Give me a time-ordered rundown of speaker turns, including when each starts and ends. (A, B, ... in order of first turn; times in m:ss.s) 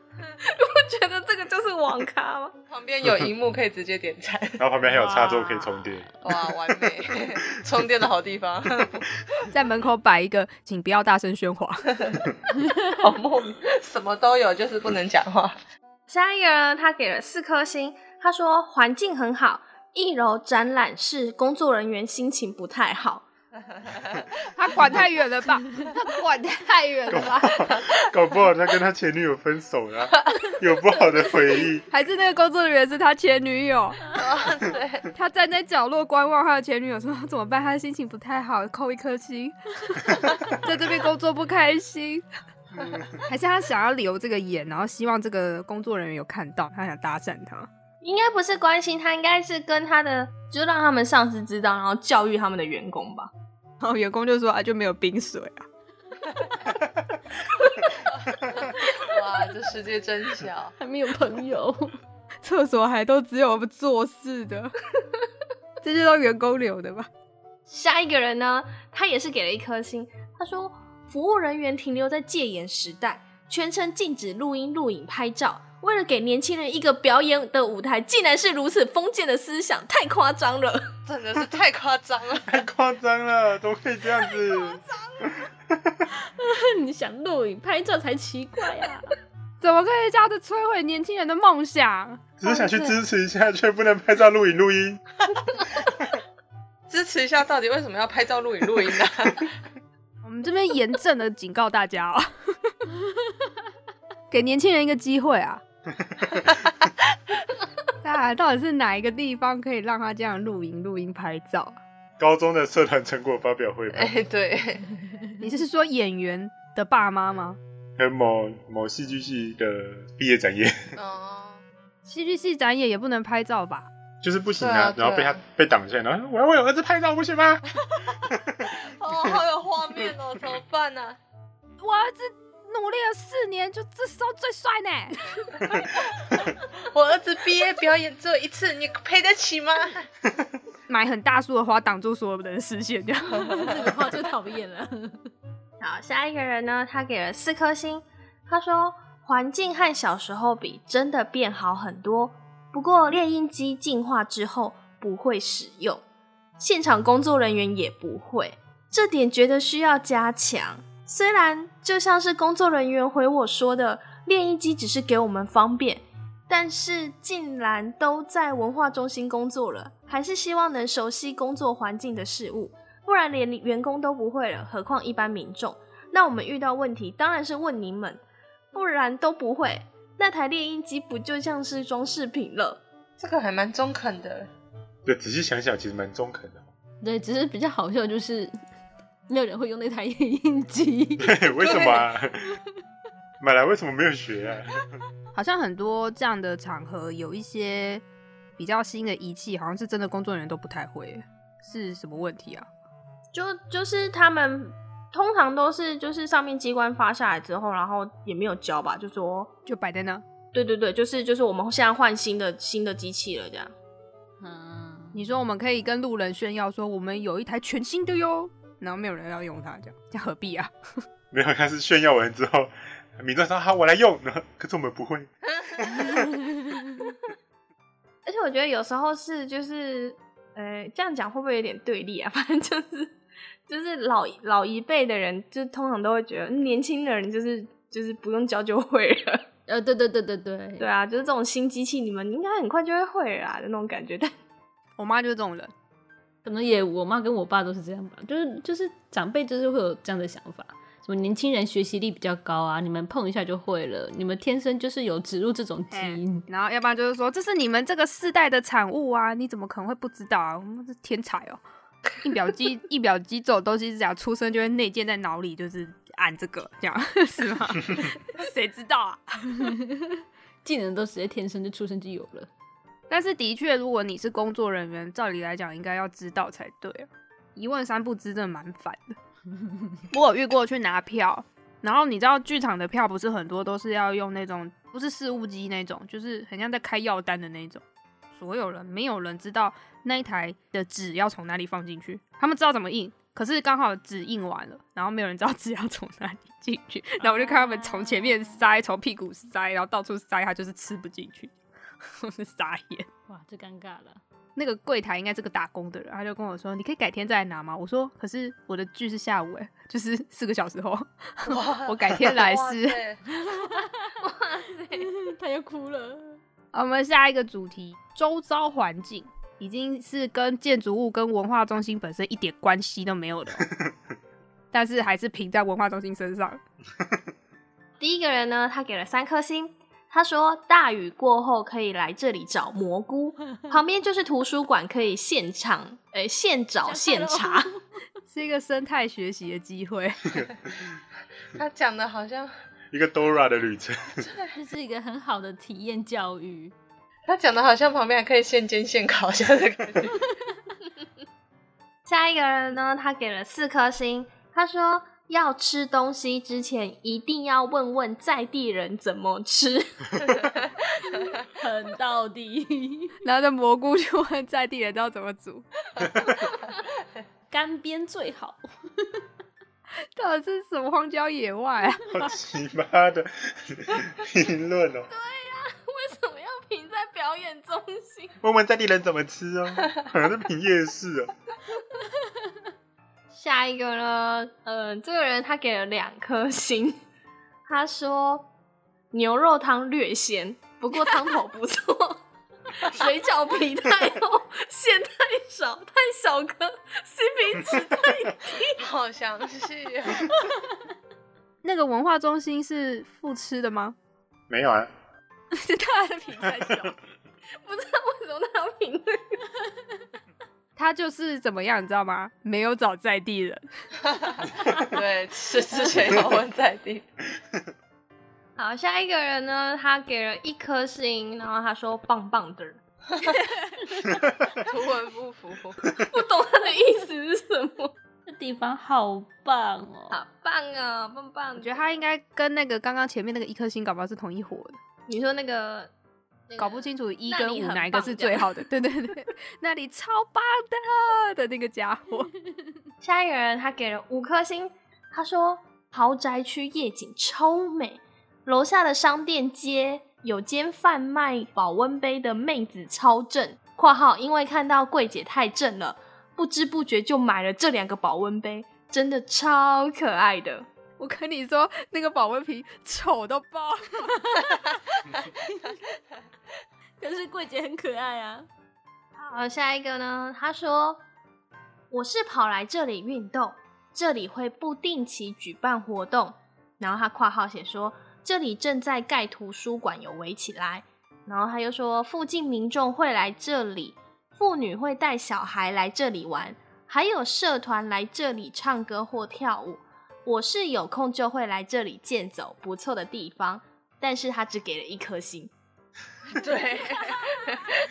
0:00.4-0:02.5 A
0:02.7-0:04.7 B
0:04.6-0:06.2 C
0:04.9-0:05.9 D
0:06.2-0:09.1 B
0:09.5-0:12.2 E
0:12.9-0:15.6 B
0:16.1-0:23.2 A
0:23.9-0:24.2 B
0:24.5-0:27.7 E
0:27.1-0:31.9 C
0:31.9-0:34.0 E
0:34.1-0:35.1 B
0:35.1-0:42.3 E
0:43.3-0:47.7 E
0:48.0-0:53.3 A
0:53.8-0:55.7 E
0:58.6-1:00.8 B
1:00.8-1:02.0 D
1:02.4-1:04.7 E
1:05.8-1:07.1 E
1:07.7-1:20.9 A
1:21.1-1:22.5 B
1:22.4-1:26.0 C
1:26.2-1:29.2 D
1:29.6-1:32.3 E
1:32.4-1:35.0 C
1:32.4-1:32.9 B
1:36.9-1:39.5 B
1:40.2-1:42.8 E
1:44.3-1:45.6 E
1:46.0-1:46.4 C
1:48.0-1:51.8 E
1:52.2-1:54.1 C
1:53.9-1:54.9 B
1:55.4-1:57.6 E
1:58.0-2:01.0 C
2:01.0-2:01.6 B
2:02.0-2:03.9 E
2:04.2-2:08.7 C
2:04.6-2:05.4 B
2:08.8-2:11.2 B
2:11.8-2:15.5 E
2:16.7-2:20.1 B
2:20.9-2:23.7 E
2:23.4-2:25.3 D
2:23.5-2:23.8 B
2:25.8-2:36.0 A
2:36.6-2:58.2 A
2:58.7-3:02.8 A
3:03.2-3:04.5 B
3:05.0-3:06.7 C
3:07.0-3:08.6 D
3:09.3-3:11.4 D
3:11.2-3:12.6 C
3:11.6-3:12.1 B
3:13.4-3:14.9 C
3:15.3-3:18.0 E
3:18.6-3:22.7 E
3:23.3-3:29.5 A
3:29.7-3:30.2 E
3:30.5-3:33.7 A
3:34.4-3:35.2 D
3:35.1-3:40.7 E
3:41.3-3:46.4 C
3:46.2-3:46.7 D
3:48.3-3:53.2 A
3:53.7-3:59.5 A
3:59.7-4:00.9 D
4:00.8-4:04.3 A
4:05.0-4:05.7 E
4:06.4-4:16.4 D
4:15.9-4:21.6 E
4:22.2-4:29.7 E
4:29.6-4:32.5 D
4:33.1-4:39.2 E
4:40.1-4:47.8 E
4:48.3-5:01.5 E
4:57.2-4:58.6 D
5:02.1-5:03.1 E
5:03.3-5:04.2 D
5:04.6-5:13.0 E
5:11.5-5:13.2 B
5:13.3-5:14.1 D
5:14.2-5:15.1 A
5:15.0-5:16.4 D
5:16.7-5:23.7 E
5:23.6-5:23.9 C
5:24.7-5:26.6 E
5:28.0-5:37.7 A
5:36.8-5:37.7 D
5:38.3-5:40.4 E
5:41.6-5:42.5 B
5:42.9-5:44.3 C
5:44.5-5:46.7 D
5:47.3-5:50.2 B
5:52.1-6:00.5 A
6:00.4-6:00.6 B
6:01.5-6:03.2 D
6:03.2-6:05.7 E
6:06.0-6:06.4 C
6:07.5-6:09.2 D
6:10.0-6:12.3 E
6:12.1-6:15.1 C
6:15.1-6:18.4 A
6:18.4-6:21.3 C
6:23.3-6:27.0 A
6:27.7-6:28.5 A
6:29.1-6:32.2 A
6:32.8-6:38.8 A
6:38.8-6:40.4 B
6:41.6-6:44.0 E
6:44.5-6:44.9 C
6:45.5-6:47.0 E
6:47.6-6:49.4 A
6:50.8-6:53.6 E
6:54.1-6:57.1 B
6:58.6-7:02.8 A
7:04.6-7:05.8 B
7:06.0-7:07.9 A
7:08.3-7:10.2 D
7:10.1-7:12.0 A
7:11.6-7:14.8 E
7:15.1-7:15.9 A
7:16.5-7:18.5 A
7:16.6-7:22.3 E
7:23.0-7:40.7 A
7:41.0-7:44.4 E
7:47.0-7:48.5 D
7:49.2-7:51.0 A
7:51.9-8:15.5 A
8:16.3-8:17.8 B